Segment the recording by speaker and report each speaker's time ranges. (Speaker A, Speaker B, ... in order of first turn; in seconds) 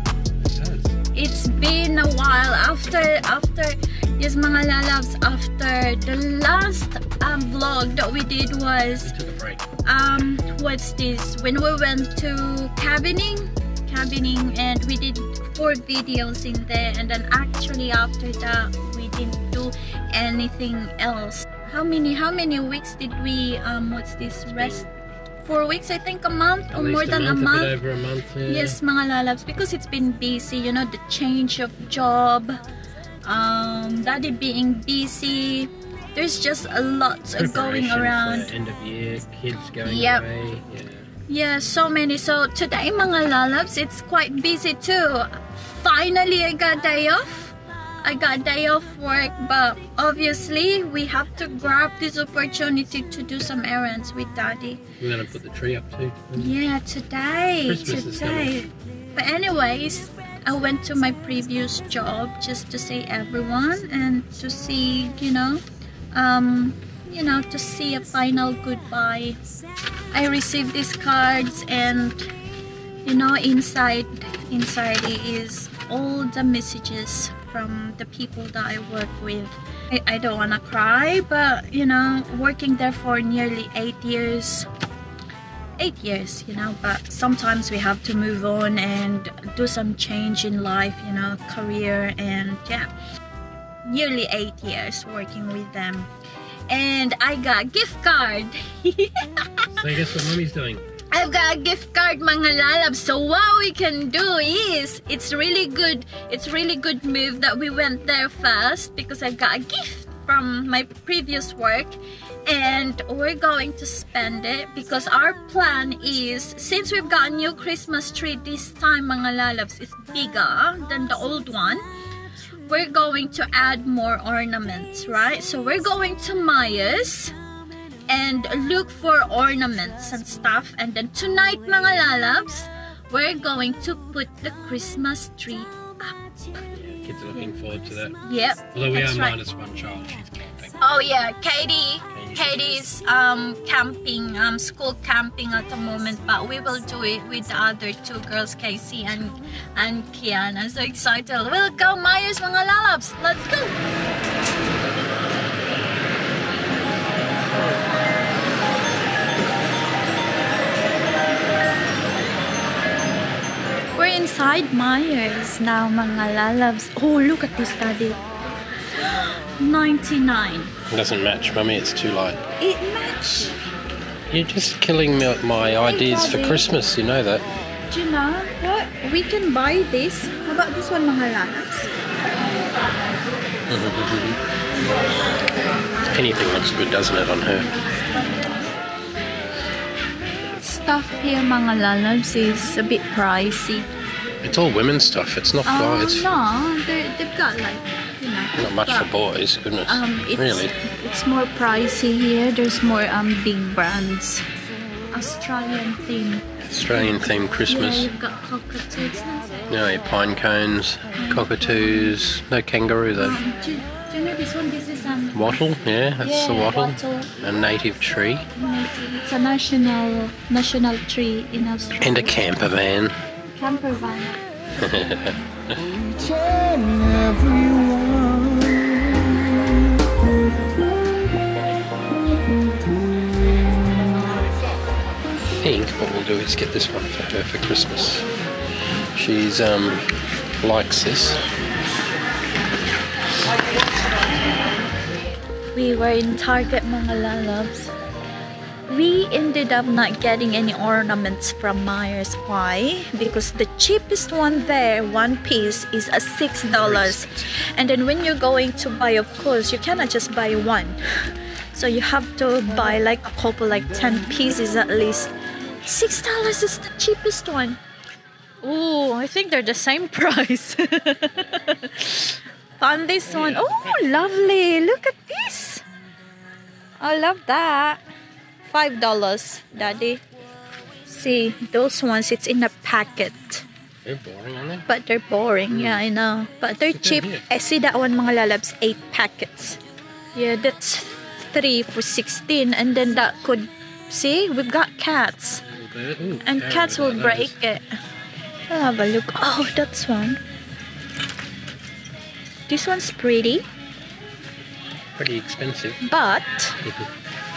Speaker A: 0.4-0.9, 9.0-9.6, 24.3-24.9, 26.7-28.8, 37.4-41.1, 55.0-56.6, 57.7-58.6, 99.8-100.8, 136.7-138.2, 138.7-140.8, 142.1-142.7, 170.9-172.4, 174.3-177.4, 183.7-184.4, 186.0-187.7, 194.4-196.3, 198.6-200.7, 206.6-208.1, 209.7-213.4, 215.3-218.5, 222.0-223.2, 224.8-225.8, 235.6-238.3, 239.1-240.0, 240.6-241.4, 256.7-257.3, 273.3-273.8, 284.0-284.9, 285.7-286.0, 286.9-287.4, 295.6-297.5, 305.1-306.0, 306.8-307.1
Speaker B: 1.1-9.1, 9.8-24.8, 25.4-27.8, 28.4-32.6, 33.2-38.5, 39.8-40.3, 41.3-54.8, 56.4-69.4, 70.1-72.3, 73.0-84.7, 85.8-92.9, 93.8-96.1, 96.7-99.8, 101.1-121.8, 122.7-127.3, 128.1-136.2, 138.2-139.4, 140.8-153.8, 163.9-168.2, 169.0-170.7, 172.6-173.6, 175.8-176.7, 177.9-181.9, 190.4-193.9, 195.6-199.1, 199.8-204.4, 205.1-209.7, 211.1-212.1, 213.2-215.6, 216.2-217.3, 218.5-222.4, 223.5-224.4, 245.7-247.9, 248.9-261.0, 261.7-265.3, 265.8-267.8, 268.6-275.8, 277.0-278.0, 278.7-280.2, 281.1-283.6, 284.9-289.8, 290.3-295.6, 296.4-297.8, 298.7-300.4, 302.7-303.6, 306.0-306.8